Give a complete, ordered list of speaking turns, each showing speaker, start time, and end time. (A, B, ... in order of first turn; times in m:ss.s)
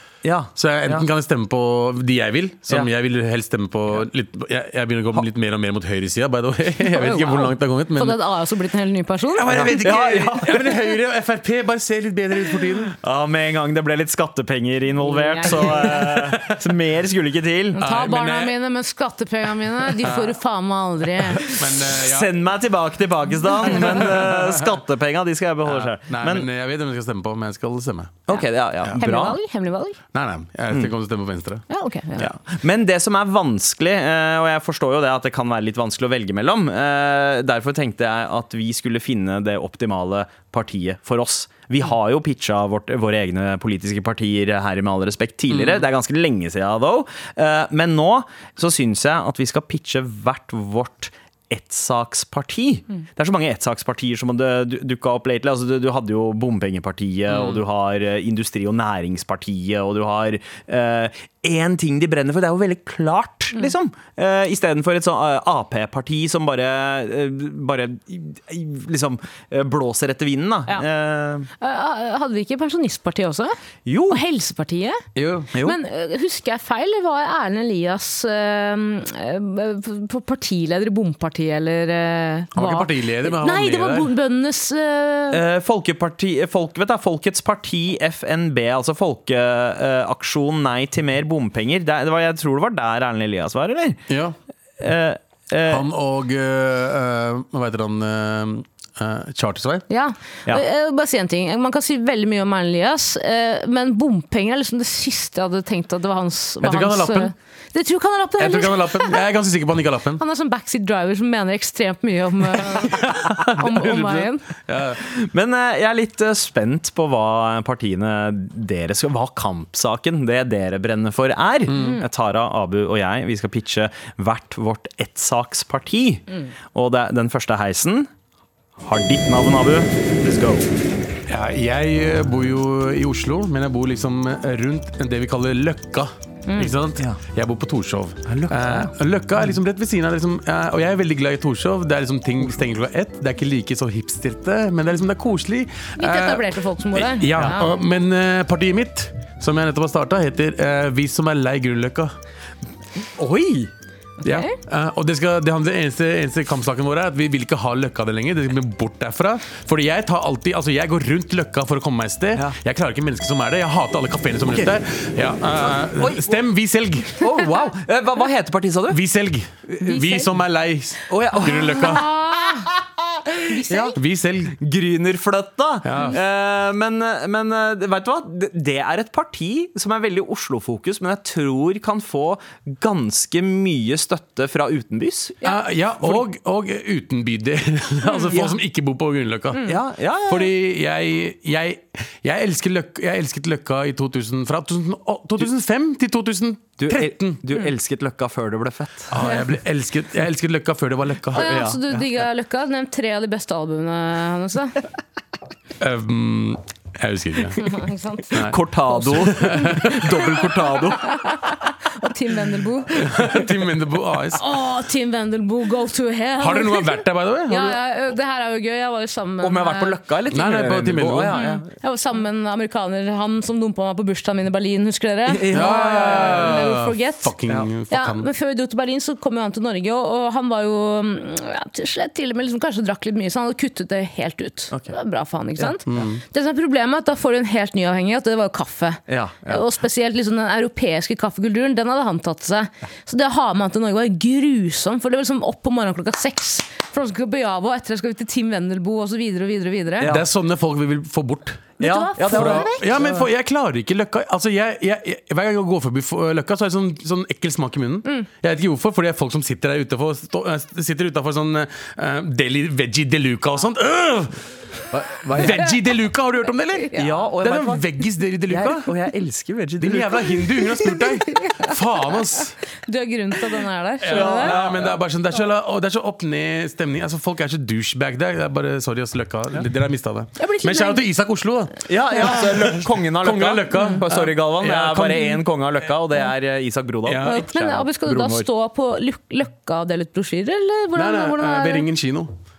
0:00.2-0:01.0 A
0:00.5-0:08.2 B
0:06.9-0:09.5 C
0:09.3-0:12.9 B
0:09.5-0:10.6 A
0:12.9-0:17.8 A
0:15.0-0:16.0 C
0:15.5-0:16.7 B
0:17.8-0:18.5 B
0:17.8-0:21.5 C
0:20.0-0:20.4 B
0:21.3-0:22.4 B
0:21.4-0:26.5 A
0:23.6-0:24.7 B
0:25.7-0:28.2 B
0:28.3-0:29.4 A
0:29.0-0:30.0 C
0:30.1-0:31.6 B
0:31.7-0:32.3 C
0:32.2-1:11.5 A
1:11.6-1:13.5 C
1:13.8-1:14.2 A
1:14.1-1:15.0 C
1:15.2-1:15.5 B
1:15.6-1:25.4 C
1:22.5-1:24.1 B
1:25.3-1:34.0 A
1:34.1-1:34.4 B
1:34.8-1:35.8 A
1:35.6-1:39.8 B
1:39.9-1:49.2 C
1:46.6-1:47.3 B
1:48.4-1:50.2 B
1:50.2-1:54.4 C
1:52.6-1:55.0 B
1:55.0-2:08.1 A
2:01.7-2:02.0 B
2:01.7-2:02.0 C
2:08.8-2:10.7 A
2:11.3-2:32.1 B
2:16.5-2:16.7 C
2:18.3-2:18.9 A
2:26.0-2:27.7 C
2:33.2-2:33.7 A
2:34.2-2:34.5 C
2:34.2-2:47.3 B
2:45.6-2:46.4 A
2:47.2-2:49.0 A
2:48.9-2:52.1 B
2:49.7-2:50.1 A
2:49.8-2:50.2 C
2:51.1-2:52.8 A
2:51.7-2:52.7 C
2:53.5-2:54.0 C
2:53.7-2:54.0 A
2:53.9-2:54.6 B
2:54.6-3:05.4 A
2:55.8-2:56.2 B
3:05.4-3:09.7 B
3:08.1-3:08.3 C
3:09.6-3:10.5 A
3:10.3-3:17.4 B
3:16.8-3:19.1 A
3:19.1-3:21.5 B
3:21.3-3:24.8 C
3:21.4-3:22.0 A
3:25.8-3:27.8 B
3:27.6-3:28.4 C
3:28.3-3:30.4 B
3:28.4-3:31.1 A
3:28.9-3:29.8 C
3:31.0-3:33.4 C
3:32.9-3:34.4 B
3:34.3-3:40.0 C
3:36.4-3:37.8 B
3:39.4-3:41.6 A
3:40.3-3:41.4 B
3:41.3-3:47.3 C
3:45.3-3:46.7 A
3:45.5-3:48.3 B
3:47.9-4:10.1 C
3:55.6-3:56.1 A
3:55.9-3:56.2 B
3:59.1-3:59.6 A
4:10.0-4:10.2 A
4:10.0-4:11.7 B
4:11.8-4:12.9 C
4:11.8-4:13.2 A
4:12.3-4:28.9 B
4:24.9-4:25.6 A
4:26.8-4:27.2 C
4:27.0-4:27.8 A
4:28.5-4:30.7 A
4:29.8-4:32.6 B
4:31.3-4:31.7 C
4:32.8-4:34.5 C
4:34.0-4:45.4 B
4:34.1-4:35.0 A
4:40.4-4:41.0 C
4:41.9-4:48.5 A
4:47.0-4:47.5 B
4:47.2-4:51.9 C
4:50.9-4:52.3 B